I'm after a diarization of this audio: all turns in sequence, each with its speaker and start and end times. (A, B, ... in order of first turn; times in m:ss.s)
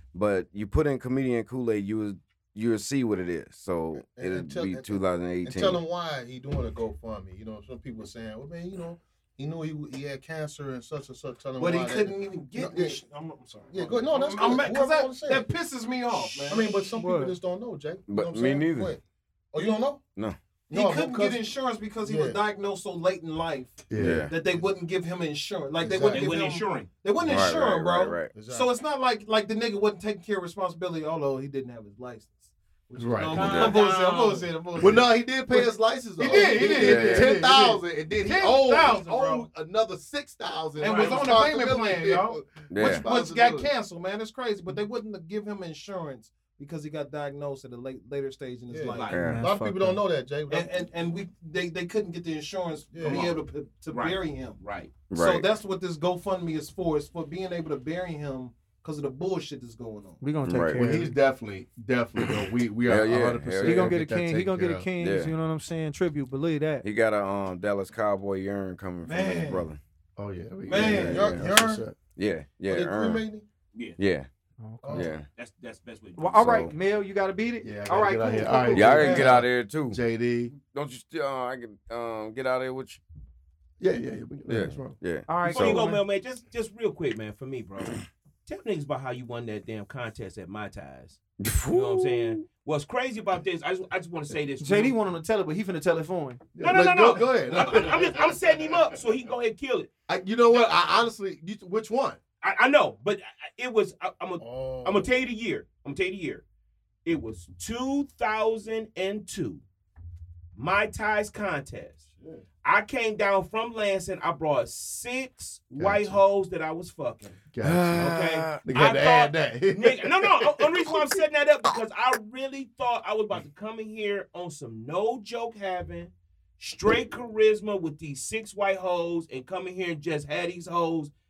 0:00.1-0:05.8 A
0:04.1-0:13.0 B
0:11.6-0:16.8 C
0:13.7-0:15.5 B
0:16.2-0:19.0 B
0:16.9-0:17.4 D
0:18.1-0:19.0 A
0:19.5-0:20.0 B
0:20.7-0:39.5 C
0:20.7-0:21.5 B
0:22.0-0:22.4 B
0:23.9-0:24.3 E
0:24.0-0:24.4 A
0:25.8-0:26.5 B
0:26.1-0:26.9 F
0:27.2-0:28.3 A
0:28.3-0:28.7 B
0:33.0-0:33.5 E
0:33.2-0:34.6 F
0:33.4-0:33.8 A
0:34.8-0:43.7 E
0:36.7-0:37.3 A
0:40.8-0:49.3 C
0:40.8-0:41.4 B
0:42.7-0:43.0 A
0:48.7-0:50.7 B
0:48.9-0:49.3 F
0:49.1-0:49.4 A
0:49.2-0:50.0 D
0:50.5-1:00.2 C
0:52.9-0:53.4 B
0:53.1-0:53.4 F
0:53.9-0:55.0 F
0:55.1-0:55.5 A
1:00.2-1:01.1 D
1:00.4-1:00.8 A
1:00.8-1:04.9 E
1:02.2-1:03.9 A
1:03.6-1:06.8 D
1:05.0-1:05.3 A
1:06.8-1:09.8 A
1:09.0-1:09.7 C
1:10.2-1:12.0 E
1:10.6-1:11.4 C
1:10.8-1:11.8 B
1:10.9-1:11.4 A
1:12.2-1:13.2 A
1:12.6-1:13.4 B
1:14.0-1:14.3 A
1:14.6-1:15.1 D
1:14.8-1:15.2 B
1:14.9-1:15.3 A
1:15.2-1:16.4 F
1:16.2-1:19.0 D
1:16.3-1:16.7 A
1:17.6-1:20.5 E
1:18.7-1:20.0 A
1:18.9-1:19.3 C
1:20.5-1:23.0 A
1:23.8-1:25.0 E
1:24.5-1:25.8 A
1:25.3-1:26.0 D
1:25.4-1:35.0 F
1:31.4-1:32.4 A
1:34.6-1:36.4 D
1:36.6-1:38.8 E
1:36.6-1:39.9 F
1:40.1-1:42.2 E
1:40.5-1:40.8 F
1:42.4-1:46.4 F
1:44.4-1:45.1 B
1:47.0-1:49.6 F
1:50.6-1:52.0 F
1:52.6-1:57.4 F
1:55.8-1:56.2 E
1:57.5-2:00.9 E
1:57.6-1:58.6 A
1:58.0-2:11.1 F